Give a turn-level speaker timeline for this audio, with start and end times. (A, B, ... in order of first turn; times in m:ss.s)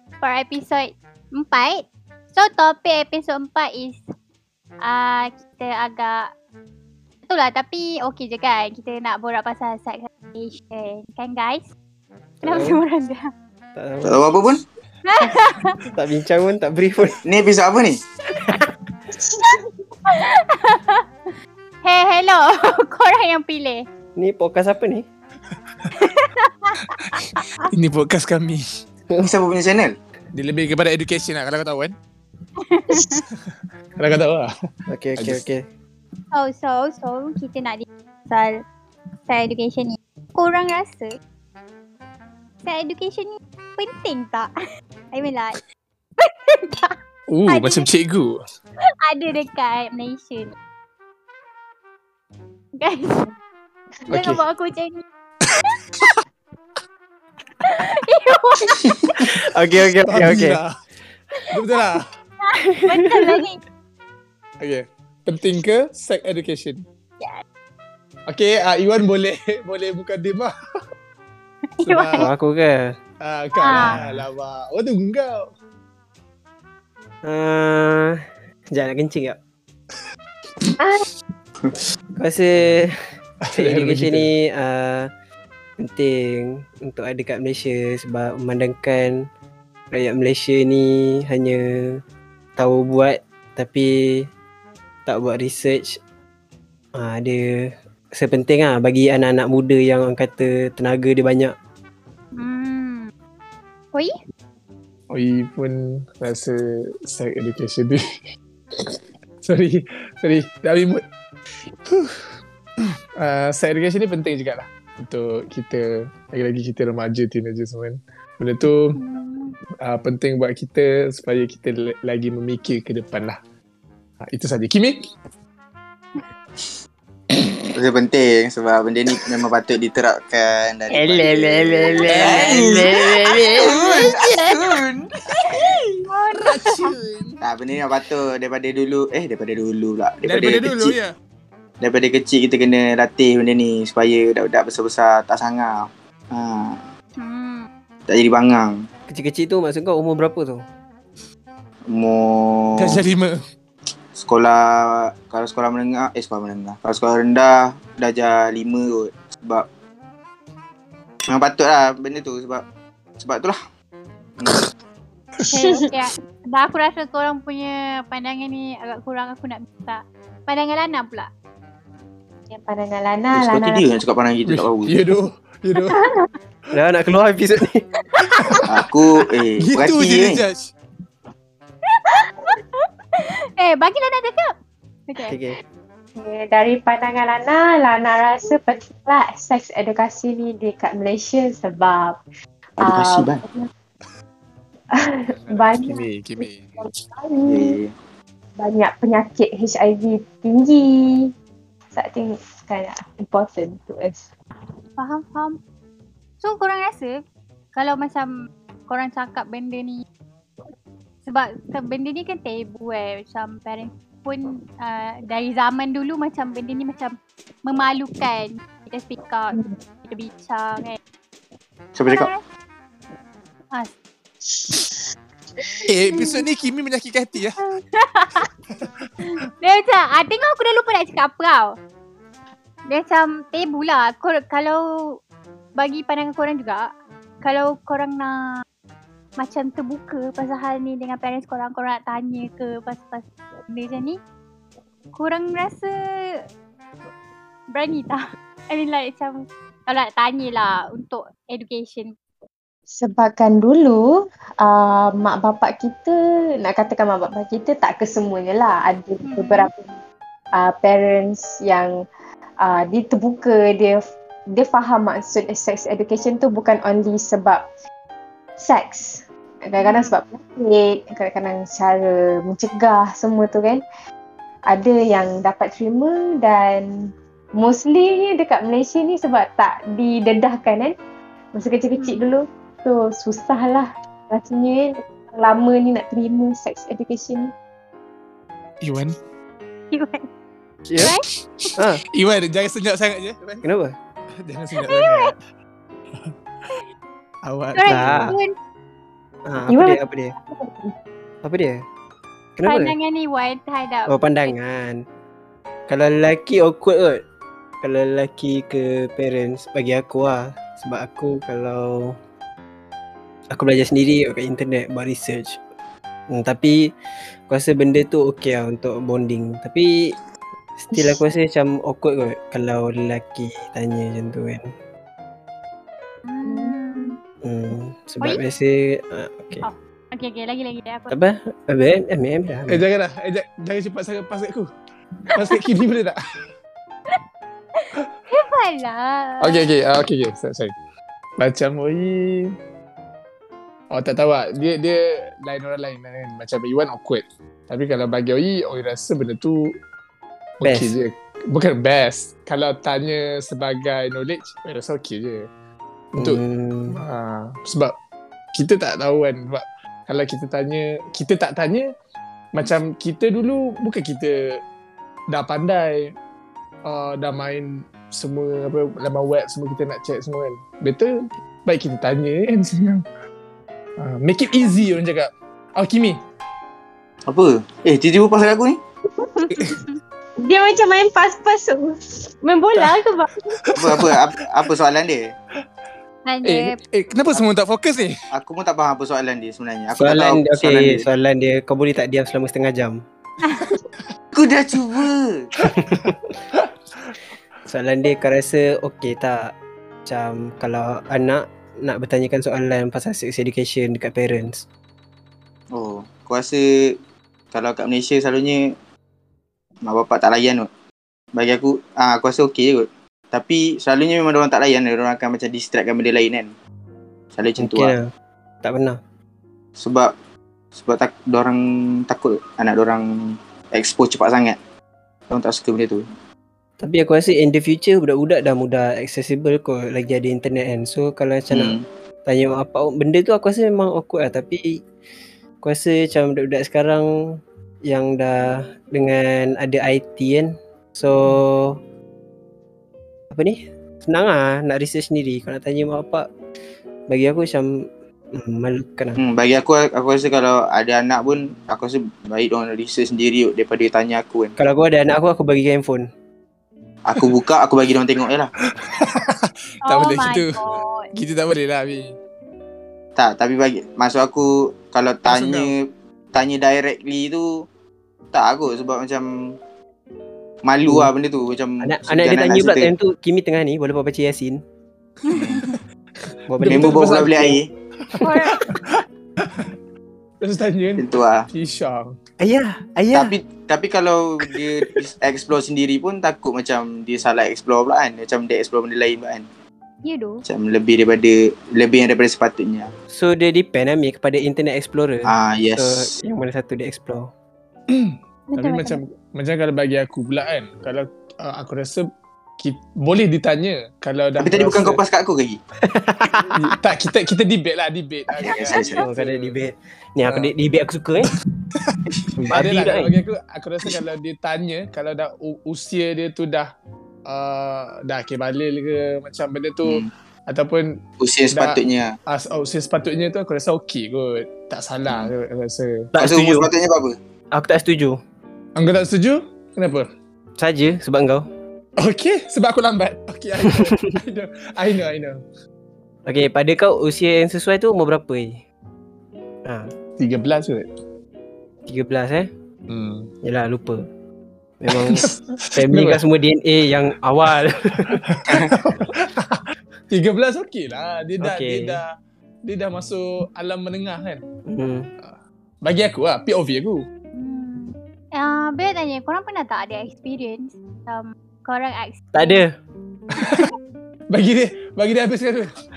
0:00.2-0:04.0 A
0:04.8-0:06.3 A
0:07.3-0:11.7 A
0:12.4-0:12.8 B
0:12.4-0:13.3 A
0:13.8-0:14.2 B
0:14.0-0:14.6 C
0:15.0-0:15.8 A
0:15.8-0:17.2 B
0:17.2-0:18.0 C
0:18.3-0:18.7 B
0:19.2-0:19.7 D
0:20.1-0:21.3 A
0:21.8-0:23.8 A
0:24.2-0:25.0 B
0:26.0-0:27.7 A
0:26.9-0:28.6 E
0:29.2-0:30.0 C
0:30.3-0:32.0 E
0:32.6-0:33.2 A
0:33.3-0:34.5 E
0:34.9-0:35.7 B
0:35.2-0:35.5 E
0:36.3-0:38.6 A
0:39.3-0:41.2 A
0:42.6-0:44.5 A
0:45.1-0:45.6 A
0:46.2-0:47.9 A
0:47.3-0:48.4 E
0:49.0-0:50.6 A
0:52.8-0:53.3 A
0:54.1-0:54.4 E
0:54.1-0:55.8 A
0:55.6-0:56.2 E
0:57.6-0:59.2 A
0:58.7-1:00.7 E
0:59.2-1:00.6 B
1:01.5-1:02.1 E
1:02.5-1:03.6 A
1:02.7-1:03.4 B
1:04.6-1:06.8 E
1:08.3-1:10.5 E
1:11.7-1:12.3 A
1:11.8-1:12.3 E
1:12.2-1:13.0 B
1:13.2-1:15.5 E
1:13.6-1:14.0 A
1:13.7-1:14.2 B
1:17.2-1:19.4 B
1:20.8-1:21.0 D
1:22.2-1:23.0 B
1:22.6-1:22.8 E
1:23.4-1:24.3 E
1:23.6-1:25.1 B
1:25.8-1:29.3 B
1:29.9-1:32.0 B
1:32.6-1:34.3 B
1:35.1-1:36.0 B
1:37.0-1:41.5 B
1:42.4-1:43.1 A
1:45.1-1:46.6 E
1:47.1-1:48.0 E
1:48.8-1:51.0 E
1:51.8-1:59.0 E
1:59.0-1:59.6 A
1:59.8-2:03.4 E
2:04.3-2:05.0 E
2:07.7-2:15.0 C
2:10.9-2:13.8 B
2:12.1-2:12.9 E
2:13.6-2:14.8 E
2:15.4-2:16.9 A
2:15.4-2:17.4 E
2:17.4-2:21.0 C
2:20.2-2:21.1 E
2:21.8-2:26.9 C
2:27.2-2:27.7 A
2:28.1-2:28.8 C
2:29.1-2:30.6 B
2:31.9-2:33.1 C
2:32.8-2:33.4 E
2:34.2-2:39.7 C
2:41.3-2:42.6 C
2:43.2-2:43.6 C
2:44.4-2:44.7 C
2:45.4-2:51.3 A
2:45.6-2:45.9 D
2:52.5-2:54.0 D
2:53.3-2:54.9 C
2:54.5-2:56.0 E
2:55.9-2:56.2 D
2:56.7-2:58.7 B
2:58.2-2:58.7 E
2:58.7-3:00.4 C
2:59.6-3:00.7 E
3:01.9-3:04.6 A
3:05.1-3:05.4 A
3:05.2-3:05.6 B
3:06.2-3:12.2 D
3:12.8-3:13.4 C
3:12.8-3:13.7 D
3:15.0-3:17.8 D
3:15.3-3:16.8 E
3:17.5-3:17.9 C
3:18.6-3:21.3 D
3:21.9-3:24.3 D
3:25.0-3:25.6 A
3:26.4-3:27.2 A
3:27.7-3:28.3 A
3:28.9-3:30.0 A
3:31.3-3:41.0 A
3:42.0-3:42.3 C
3:42.1-3:42.4 A
3:44.5-3:44.9 D
3:45.8-3:47.6 E
3:47.6-3:48.5 A
3:48.8-3:49.1 E
3:49.2-3:51.8 A
3:52.9-3:55.2 A
3:55.8-3:56.9 A
3:57.4-3:58.6 A
3:59.4-4:04.2 A
4:05.2-4:06.4 A
4:07.7-4:12.1 A
4:12.9-4:14.0 D
4:14.6-4:20.0 D
4:19.2-4:19.7 A
4:20.6-4:21.9 D
4:22.6-4:24.0 D
4:24.6-4:27.6 D
4:28.6-4:33.8 D
4:29.8-4:30.2 A
4:34.7-4:36.9 D
4:37.6-4:40.9 D
4:41.5-4:47.5 D
4:48.8-4:49.2 E
4:49.9-4:50.3 A
4:51.0-4:51.7 A
4:51.0-4:53.6 E
4:51.8-4:52.0 B
4:53.6-4:54.0 B
4:54.5-4:55.4 E
4:54.8-4:55.3 A
4:57.4-4:58.4 E
4:57.8-4:58.6 A
4:57.9-4:58.4 B
4:59.5-5:00.4 B
4:59.7-5:00.9 D
5:01.4-5:01.8 B
5:02.6-5:03.0 B
5:02.6-5:04.6 A
5:04.1-5:05.0 B
5:05.9-5:07.2 B
5:07.8-5:12.2 B
5:13.5-5:15.6 B
5:16.3-5:16.9 B
5:17.5-5:20.2 B
5:20.8-5:24.7 B
5:20.9-5:21.2 D
5:26.3-5:27.2 A
5:26.5-5:27.2 D
5:27.4-5:29.7 B
5:29.6-5:31.2 A
5:31.1-5:32.8 B
5:32.7-5:34.7 E
5:35.3-5:36.2 E
5:35.3-5:35.6 A
5:37.8-5:39.7 A
5:39.4-5:40.7 E
5:41.4-5:42.5 E
5:43.9-5:49.7 E
5:50.6-5:55.5 E
5:50.6-5:50.9 B
5:56.1-5:57.9 E
5:56.2-5:57.0 B
5:58.5-6:01.9 E
6:02.5-6:04.6 E
6:05.3-6:06.2 E
6:06.9-6:11.1 E
6:11.7-6:13.0 E
6:14.0-6:16.2 E
6:17.3-6:18.8 C
6:19.2-6:19.8 D
6:19.5-6:19.8 E
6:20.4-6:23.8 D
6:23.6-6:24.3 E
6:23.8-6:25.4 C
6:26.3-6:26.8 A
6:26.4-6:28.2 E
6:28.3-6:31.1 C
6:30.0-6:33.0 B
6:33.4-6:33.7 A
6:34.3-6:35.5 C
6:35.6-6:36.4 B
6:36.5-6:37.2 E
6:37.7-6:39.5 B
6:40.1-6:44.6 B
6:45.7-6:47.0 C
6:47.5-6:48.7 C
6:49.8-6:50.7 C
6:51.4-6:56.5 C
6:57.4-6:57.9 C
6:57.6-6:58.1 B
6:58.6-6:59.0 B
6:59.8-7:00.1 C
7:00.8-7:04.6 C
7:05.3-7:06.1 C
7:06.8-7:11.8 B
7:11.5-7:11.9 C
7:12.3-7:14.8 B
7:15.6-7:21.8 B
7:23.3-7:26.3 B
7:27.1-7:29.2 B
7:29.2-7:34.6 C
7:34.6-7:36.1 B
7:37.1-7:38.5 C
7:37.2-7:37.4 E
7:38.6-7:40.6 E
7:39.9-7:41.1 A
7:41.1-7:42.2 E
7:43.2-7:47.5 C
7:45.3-7:45.7 E
7:48.3-7:49.6 C
7:50.6-7:52.9 C
7:51.8-7:54.6 B
7:55.3-7:55.8 A
7:55.3-7:59.7 E
7:55.3-7:55.7 C
7:56.5-7:57.6 B
7:56.6-7:57.7 C
7:58.2-7:58.7 A
8:00.4-8:02.2 E
8:01.0-8:01.5 C
8:02.4-8:03.4 B
8:03.1-8:09.5 C
8:10.0-8:10.4 A
8:10.4-8:12.9 C
8:13.1-8:17.3 B
8:15.2-8:16.1 C
8:17.9-8:22.1 E
8:18.5-8:19.0 A
8:22.6-8:25.0 E
8:24.4-8:25.6 C
8:25.8-8:26.8 B
8:26.3-8:29.6 E
8:28.3-8:29.0 C
8:28.5-8:29.1 A
8:29.0-8:31.3 B
8:30.2-8:30.5 E
8:31.8-8:36.7 E
8:32.4-8:33.1 B
8:37.3-8:41.0 E
8:41.2-8:42.2 C
8:41.5-8:46.1 E
8:46.1-8:46.7 B
8:46.2-8:47.2 C
8:47.5-8:48.2 B
8:48.8-8:50.1 E
8:50.6-8:51.5 B
8:52.0-8:55.4 E
8:53.7-8:53.9 B
8:56.3-8:58.6 B
8:59.7-8:59.9 B
9:00.2-9:00.9 E
9:01.9-9:02.5 B
9:02.9-9:03.3 E
9:03.4-9:04.0 B
9:04.8-9:08.2 B
9:04.9-9:06.3 E
9:08.0-9:12.1 E
9:08.5-9:08.8 C
9:11.4-9:12.0 B
9:12.6-9:14.4 E
9:14.7-9:15.1 B
9:15.2-9:17.0 E
9:17.4-9:22.6 A
9:22.3-9:22.8 B
9:23.4-9:23.7 E
9:24.3-9:25.7 E